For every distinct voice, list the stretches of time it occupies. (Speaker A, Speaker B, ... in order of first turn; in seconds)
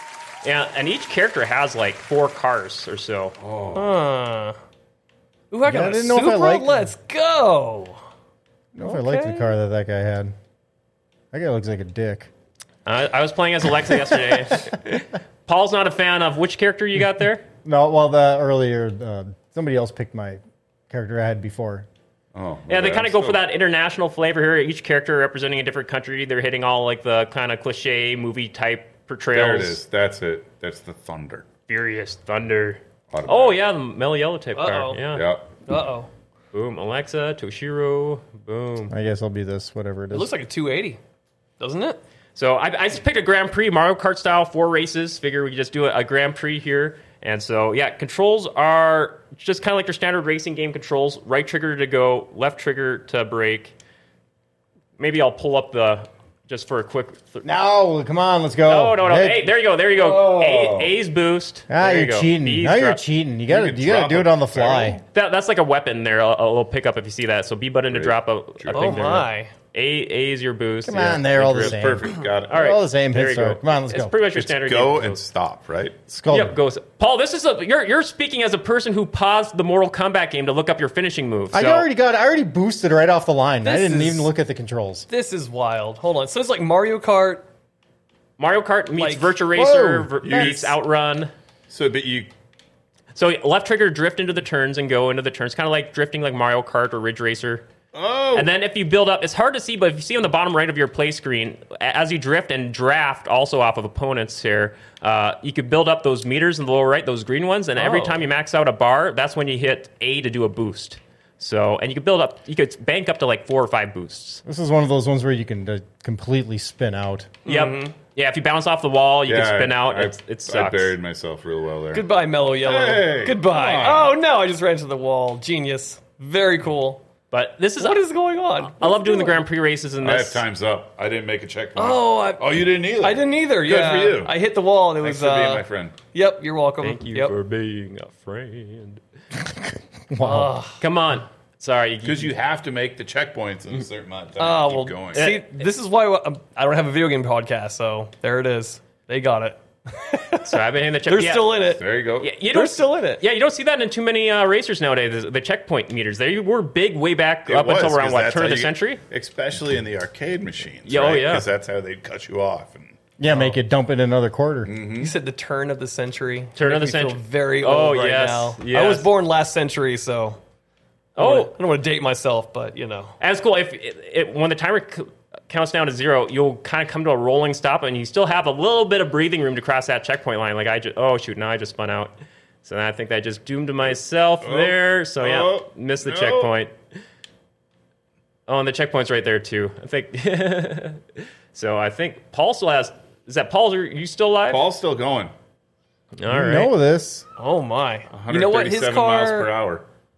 Speaker A: 0.4-3.3, 12.8-17.4, 22.7-29.8, 31.7-35.3, 36.5-38.9, 42.3-53.7, 55.0-57.5, 58.6-63.0, 65.1-71.8, 72.5-75.2, 76.3-81.8, 88.4-91.3, 93.1-97.6, 98.3-114.4, 117.5-120.9, 127.3-128.0, 128.6-130.4, 136.8-139.0, 140.8-142.3, 145.1-145.7, 150.4-151.6, 152.2-159.0, 160.8-161.5, 166.6-169.1, 171.2-171.5, 173.2-182.1, 182.6-186.7, 188.5-194.6, 196.2-196.7
Speaker B: 3.4-3.9, 22.3-23.4, 29.3-31.5, 33.1-33.6, 35.1-35.5, 59.9-61.0, 63.5-65.0, 67.9-69.2, 71.5-72.7, 74.3-76.0, 90.2-90.8, 91.7-92.3, 97.9-98.5, 119.3-122.0, 122.6-124.2, 130.0-134.3, 135.0-135.9, 142.0-145.3, 151.6-152.3, 157.5-163.0, 164.6-165.1, 184.4-186.5, 194.5-195.3, 198.1-199.8
Speaker C: 3.7-4.6, 5.5-8.0, 34.5-35.0, 35.6-36.1, 40.1-41.0, 41.6-42.0, 68.7-69.5, 83.6-84.3, 85.1-87.4, 89.0-89.4, 107.8-108.3, 117.4-117.9, 121.9-127.0, 127.8-129.4, 131.8-137.3, 140.2-140.8, 144.4-153.2, 163.3-163.6, 164.9-170.4, 171.2-173.1, 197.4-199.5
Speaker D: 5.7-6.9, 8.7-10.3, 11.3-12.3, 17.6-20.4, 20.9-21.9, 38.9-40.3, 57.4-59.5, 61.7-65.0, 70.8-74.1, 76.1-76.6, 81.5-85.1, 89.5-90.2, 114.4-117.3, 139.4-140.6, 163.2-164.7, 196.3-197.2